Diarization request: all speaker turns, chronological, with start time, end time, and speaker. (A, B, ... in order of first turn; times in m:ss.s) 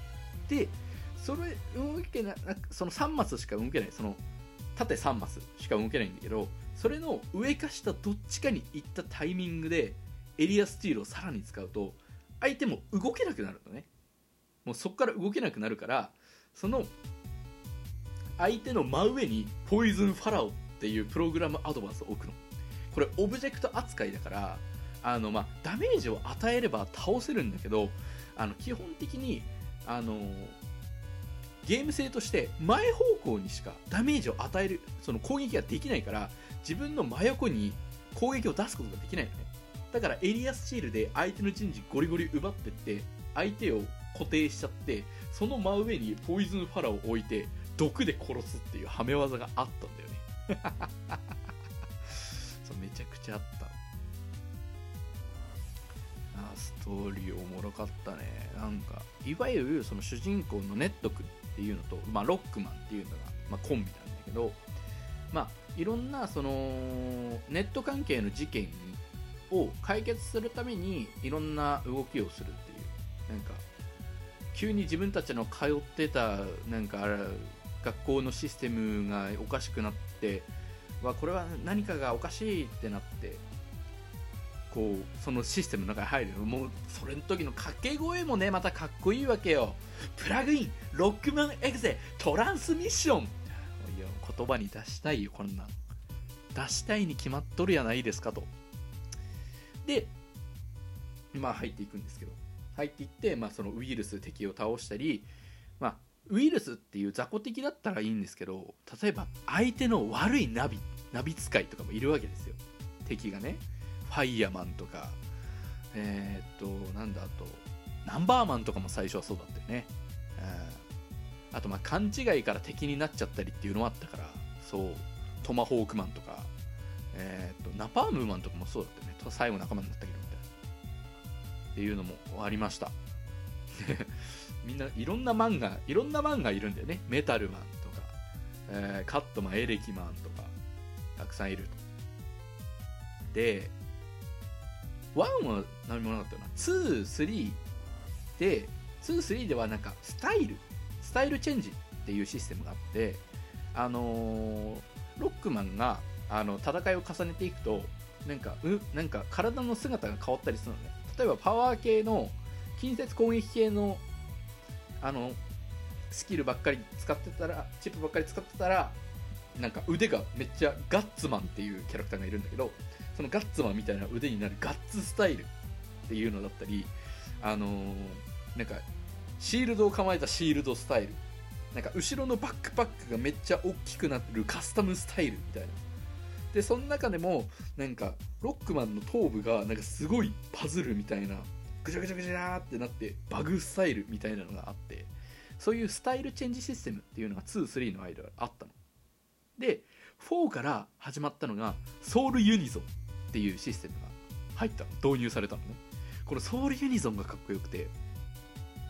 0:00.5-0:04.2 A
0:04.8-0:13.9 A
0:14.6-0:16.9 A
0:18.4-0:22.4 A
0:22.9-0:30.6 A
0:31.6-0:51.3 A
0:52.1-0:53.8 A
0:56.3-1:04.6 A
1:05.3-1:13.6 A
1:14.5-1:20.5 A
1:21.0-1:23.4 A
1:24.7-1:35.8 A
1:36.5-1:38.5 A
1:39.8-1:40.1 A
1:41.3-1:55.2 A
1:55.9-2:00.8 A
2:01.5-2:06.5 A
2:07.1-2:10.4 A
2:11.7-2:13.0 A
2:13.7-2:18.1 A
2:18.7-2:20.5 A
2:21.2-2:21.8 A
2:23.3-2:23.7 A
2:25.1-2:27.6 A
2:28.4-2:44.0 A
2:45.0-2:45.4 A
2:46.1-2:49.0 A
2:49.6-2:55.5 A
2:56.1-2:58.8 A
2:59.4-3:01.2 A
3:01.7-3:05.8 A
3:06.5-3:18.8 A
3:19.6-3:27.9 A